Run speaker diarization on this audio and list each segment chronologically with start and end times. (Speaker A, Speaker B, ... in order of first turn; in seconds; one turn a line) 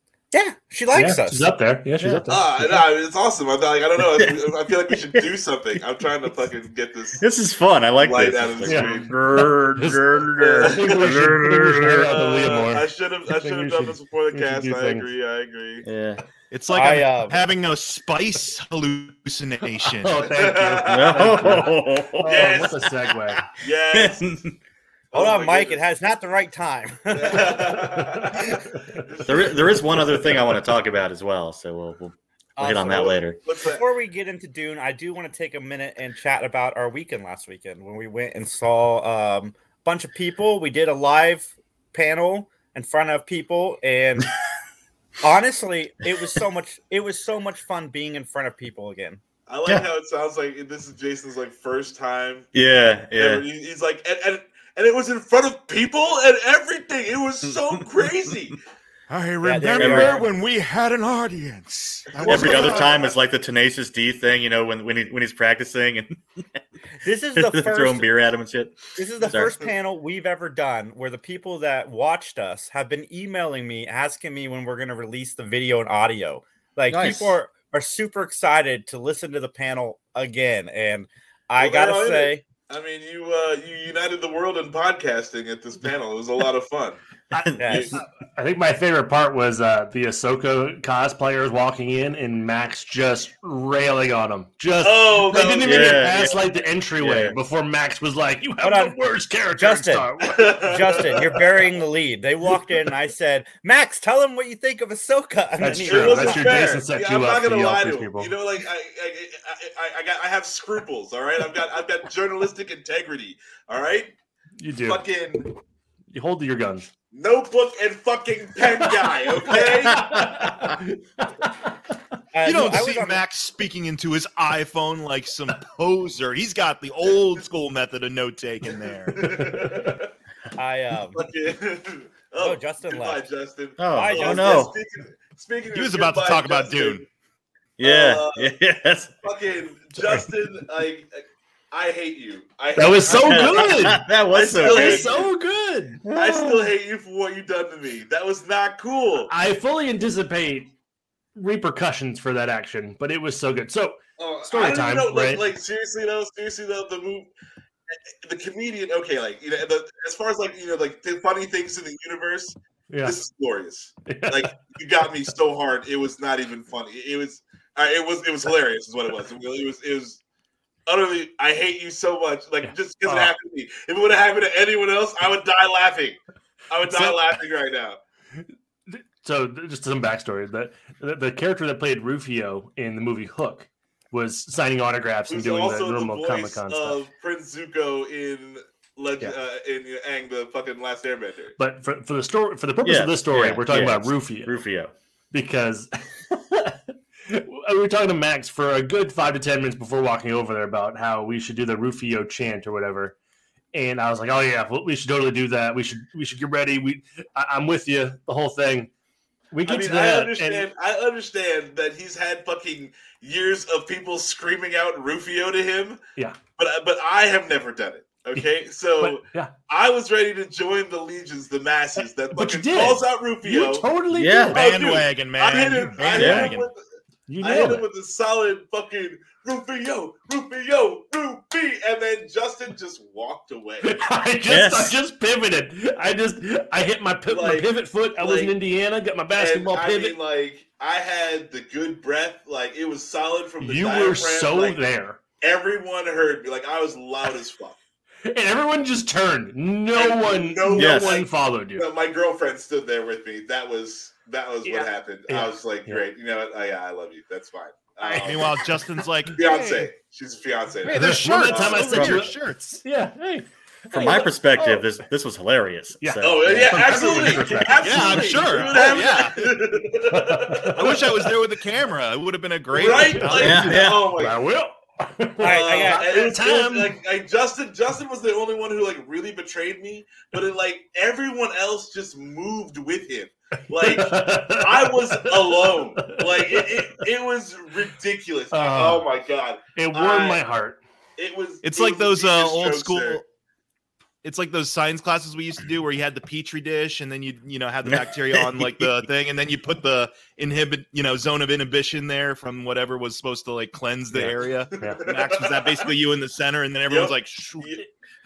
Speaker A: 0.3-1.5
Speaker B: 0.9-2.9
Speaker C: 2.0-2.2
Speaker D: 2.3-7.2
Speaker C: 4.1-4.4
Speaker C: 7.2-12.1
Speaker D: 8.0-9.1
Speaker B: 8.6-15.1
Speaker D: 10.4-11.2
Speaker D: 12.0-15.9
Speaker C: 15.8-16.2
Speaker E: 16.5-20.1
Speaker A: 16.7-17.4
Speaker B: 20.0-23.4
Speaker D: 20.2-21.7
Speaker C: 20.9-22.6
Speaker D: 22.2-22.9
Speaker D: 23.6-24.3
Speaker C: 23.9-24.5
Speaker D: 25.1-25.8
Speaker A: 25.1-27.7
Speaker D: 27.1-28.5
Speaker D: 29.0-29.4
Speaker C: 29.2-33.4
Speaker A: 32.6-33.2
Speaker D: 32.8-33.8
Speaker A: 33.7-44.3
Speaker A: 45.2-49.2
Speaker D: 49.5-52.5
Speaker C: 52.5-53.4
Speaker D: 53.1-58.6
Speaker E: 59.1-63.0
Speaker A: 59.4-60.3
Speaker C: 59.8-60.2
Speaker C: 62.2-66.4
Speaker D: 62.2-62.9
Speaker A: 62.4-62.7
Speaker A: 67.0-68.1
Speaker C: 67.3-69.5
Speaker A: 69.0-82.4
Speaker C: 76.9-77.3
Speaker D: 81.6-87.0
Speaker C: 87.3-87.8
Speaker A: 87.6-88.0
Speaker D: 87.6-87.9
Speaker B: 88.0-101.0
Speaker D: 94.8-96.4
Speaker C: 95.6-96.4
Speaker C: 97.0-97.4
Speaker A: 98.6-99.0
Speaker A: 99.5-100.1
Speaker D: 100.2-101.4
Speaker A: 100.7-106.6
Speaker B: 105.6-108.3
Speaker D: 105.8-114.1
Speaker B: 114.6-115.0
Speaker D: 114.8-115.5
Speaker B: 116.1-116.9
Speaker D: 117.1-120.2
Speaker B: 118.6-121.7
Speaker C: 120.0-120.5
Speaker A: 122.3-123.2
Speaker E: 122.4-129.2
Speaker D: 127.1-127.4
Speaker D: 129.1-130.1
Speaker B: 129.2-129.9
Speaker A: 130.6-131.2
Speaker D: 131.1-137.1
Speaker A: 132.4-133.2
Speaker C: 133.8-134.7
Speaker A: 133.9-134.7
Speaker E: 135.7-137.0
Speaker C: 137.8-139.2
Speaker D: 137.8-138.5
Speaker D: 139.2-145.3
Speaker B: 142.7-146.0
Speaker C: 143.1-145.1
Speaker C: 146.1-146.7
Speaker D: 146.1-149.3
Speaker B: 149.3-150.7
Speaker B: 151.3-155.4
Speaker D: 154.2-157.3
Speaker D: 158.2-170.2
Speaker B: 162.9-163.2
Speaker B: 164.1-164.7
Speaker D: 170.9-178.0
Speaker B: 172.7-173.3
Speaker B: 176.8-177.3
Speaker B: 178.9-187.0
Speaker D: 185.3-191.5
Speaker B: 191.6-194.6
Speaker C: 192.8-194.9
Speaker B: 195.3-196.8
Speaker B: 197.3-203.1
Speaker B: 203.7-208.9
Speaker B: 209.5-210.7
Speaker D: 209.6-216.0
Speaker D: 216.6-223.9
Speaker B: 219.0-219.5
Speaker B: 222.3-224.6
Speaker C: 224.1-224.6
Speaker D: 224.5-226.8
Speaker E: 224.5-226.7
Speaker C: 226.2-226.5
Speaker B: 227.3-227.8
Speaker D: 227.4-234.0
Speaker B: 233.8-240.2
Speaker C: 234.4-234.9
Speaker D: 237.3-238.5
Speaker D: 239.3-244.8
Speaker B: 243.6-245.2
Speaker D: 245.4-247.8
Speaker B: 248.3-251.9
Speaker D: 249.9-258.6
Speaker C: 250.8-251.2
Speaker B: 254.7-256.1
Speaker B: 258.0-258.6
Speaker E: 258.2-259.8
Speaker D: 259.3-262.0
Speaker E: 260.9-262.8
Speaker B: 260.9-264.9
Speaker C: 261.9-262.2
Speaker C: 263.9-267.3
Speaker B: 266.0-268.9
Speaker D: 266.2-271.0
Speaker E: 267.8-269.6
Speaker B: 270.1-271.1
Speaker E: 270.8-273.4
Speaker D: 272.7-274.4
Speaker B: 272.8-277.0
Speaker C: 273.4-274.1
Speaker A: 275.4-276.1
Speaker D: 275.4-290.4
Speaker B: 283.7-287.1
Speaker B: 288.5-289.1
Speaker B: 289.8-290.8
Speaker D: 291.2-293.2
Speaker E: 291.6-293.2
Speaker E: 294.2-307.5
Speaker C: 297.9-298.9
Speaker B: 304.1-305.1
Speaker D: 304.8-305.9
Speaker D: 306.9-307.8
Speaker B: 307.4-307.7